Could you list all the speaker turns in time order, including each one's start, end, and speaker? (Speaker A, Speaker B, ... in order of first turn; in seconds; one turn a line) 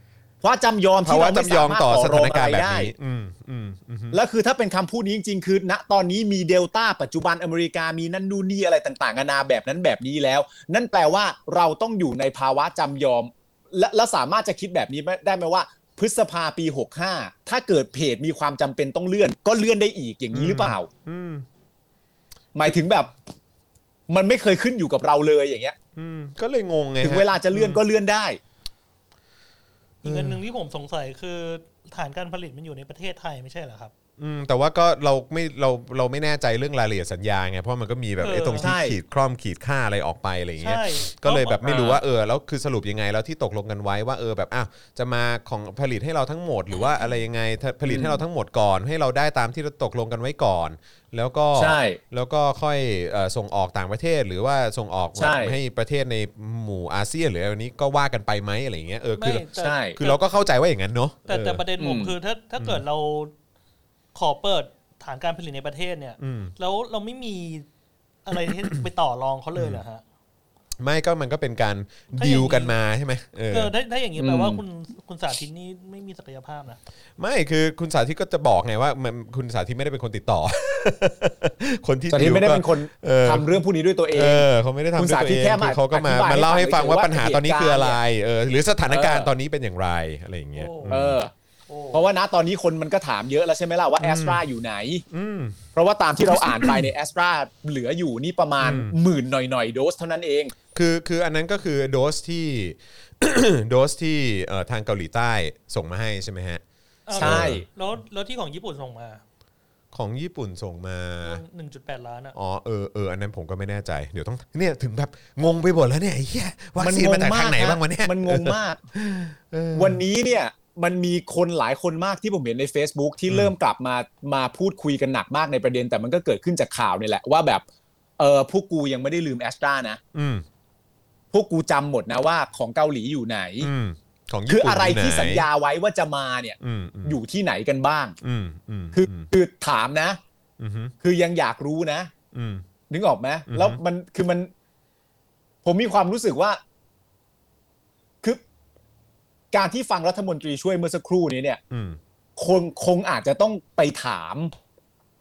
Speaker A: 0.4-2.9
Speaker B: 1.0-4.2
Speaker A: 4.1-20.9
Speaker B: 20.3-21.5
Speaker A: 22.6-23.1
Speaker A: 24.1-25.8
Speaker B: 26.0-27.8
Speaker A: 27.0-28.4
Speaker C: 30.0-33.9
Speaker B: 30.0-30.4
Speaker B: 34.2-61.6
Speaker C: 38.2-38.7
Speaker A: 38.6-39.0
Speaker C: 40.6-41.6
Speaker A: 41.6-42.0
Speaker A: 47.9-48.2
Speaker A: 51.6-52.0
Speaker A: 55.2-55.6
Speaker C: 59.2-60.2
Speaker A: 59.6-60.0
Speaker C: 61.3-63.3
Speaker A: 61.8-62.1
Speaker C: 64.2-67.7
Speaker B: 66.2-66.5
Speaker C: 68.2-70.0
Speaker B: 69.5-69.8
Speaker B: 70.8-73.7
Speaker C: 72.1-72.8
Speaker C: 73.5-76.8
Speaker A: 74.2-74.6
Speaker B: 77.2-83.5
Speaker A: 82.1-88.0
Speaker B: 84.1-91.2
Speaker A: 88.9-89.2
Speaker C: 90.5-91.0
Speaker A: 90.9-91.3
Speaker C: 91.7-92.0
Speaker A: 91.9-95.0
Speaker B: 94.0-94.4
Speaker B: 95.1-95.6
Speaker A: 95.8-100.5
Speaker B: 96.4-96.8
Speaker B: 98.6-99.0
Speaker B: 100.7-106.6
Speaker C: 107.1-109.2
Speaker B: 107.2-107.6
Speaker A: 107.2-107.6
Speaker B: 109.9-111.4
Speaker C: 111.2-112.4
Speaker B: 112.3-120.0
Speaker A: 116.8-118.8
Speaker A: 119.8-127.7
Speaker B: 123.3-123.5
Speaker A: 128.2-130.0
Speaker B: 130.1-130.4
Speaker A: 131.3-133.7
Speaker B: 133.6-135.5
Speaker A: 134.5-138.2
Speaker B: 136.6-137.2
Speaker B: 138.2-139.3
Speaker A: 138.9-140.2
Speaker B: 140.6-140.9
Speaker A: 141.0-142.1
Speaker B: 142.3-142.7
Speaker A: 142.9-144.5
Speaker B: 143.5-143.8
Speaker A: 145.6-146.6
Speaker A: 149.5-151.6
Speaker B: 151.7-152.0
Speaker A: 152.4-154.5